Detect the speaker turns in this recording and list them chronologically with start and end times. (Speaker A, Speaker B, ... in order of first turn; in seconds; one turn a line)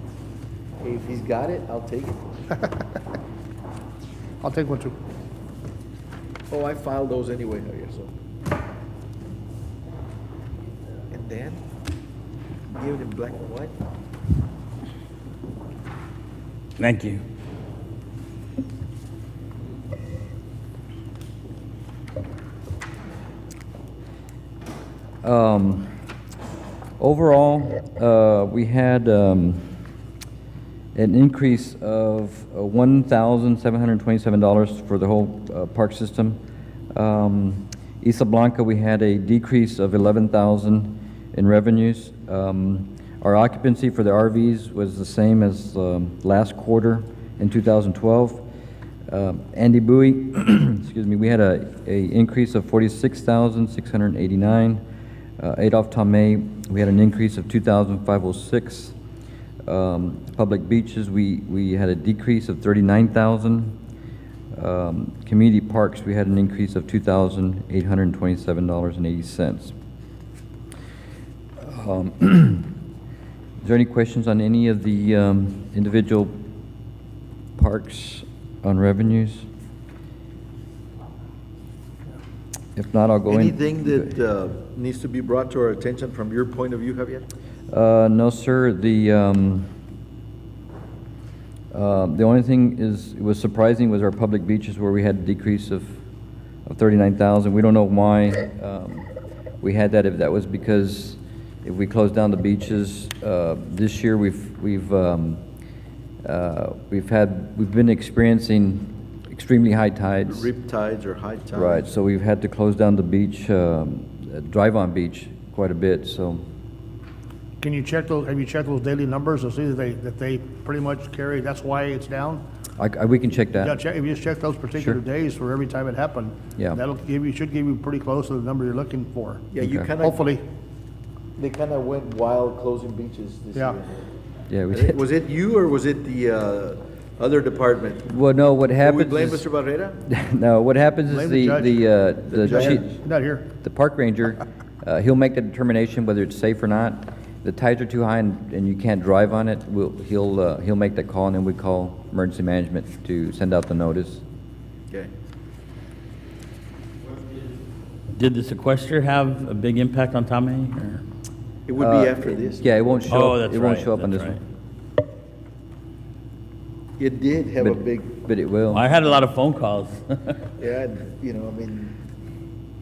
Speaker A: 0.8-2.6
Speaker B: 4.4-5.0
Speaker A: 6.5-8.1
Speaker A: 11.1-11.6
Speaker A: 12.7-13.8
Speaker C: 16.8-17.2
Speaker D: 25.2-25.9
Speaker D: 27.0-29.7
Speaker D: 30.9-36.4
Speaker D: 36.9-48.4
Speaker D: 49.1-54.8
Speaker D: 55.4-58.9
Speaker D: 59.6-63.8
Speaker D: 64.5-69.7
Speaker D: 71.6-72.7
Speaker D: 73.6-76.3
Speaker D: 77.6-79.5
Speaker D: 82.8-84.0
Speaker A: 83.3-87.2
Speaker D: 87.7-89.7
Speaker D: 91.7-96.0
Speaker D: 96.7-99.1
Speaker D: 99.6-105.4
Speaker D: 106.2-110.5
Speaker A: 110.3-111.8
Speaker D: 111.5-116.4
Speaker B: 117.6-122.4
Speaker D: 122.8-123.8
Speaker B: 123.6-130.4
Speaker A: 129.5-130.2
Speaker D: 129.6-129.9
Speaker A: 131.4-134.1
Speaker D: 134.5-135.0
Speaker A: 134.7-138.1
Speaker D: 138.1-139.5
Speaker A: 138.8-140.0
Speaker D: 140.1-143.0
Speaker B: 141.1-141.8
Speaker A: 142.3-142.9
Speaker B: 142.4-143.5
Speaker D: 143.6-154.2
Speaker C: 158.1-161.0
Speaker A: 161.7-162.7
Speaker D: 161.8-164.4
Speaker C: 163.1-164.4
Speaker A: 167.0-168.1
Speaker D: 167.6-168.9
Speaker C: 168.7-170.4
Speaker A: 170.6-172.0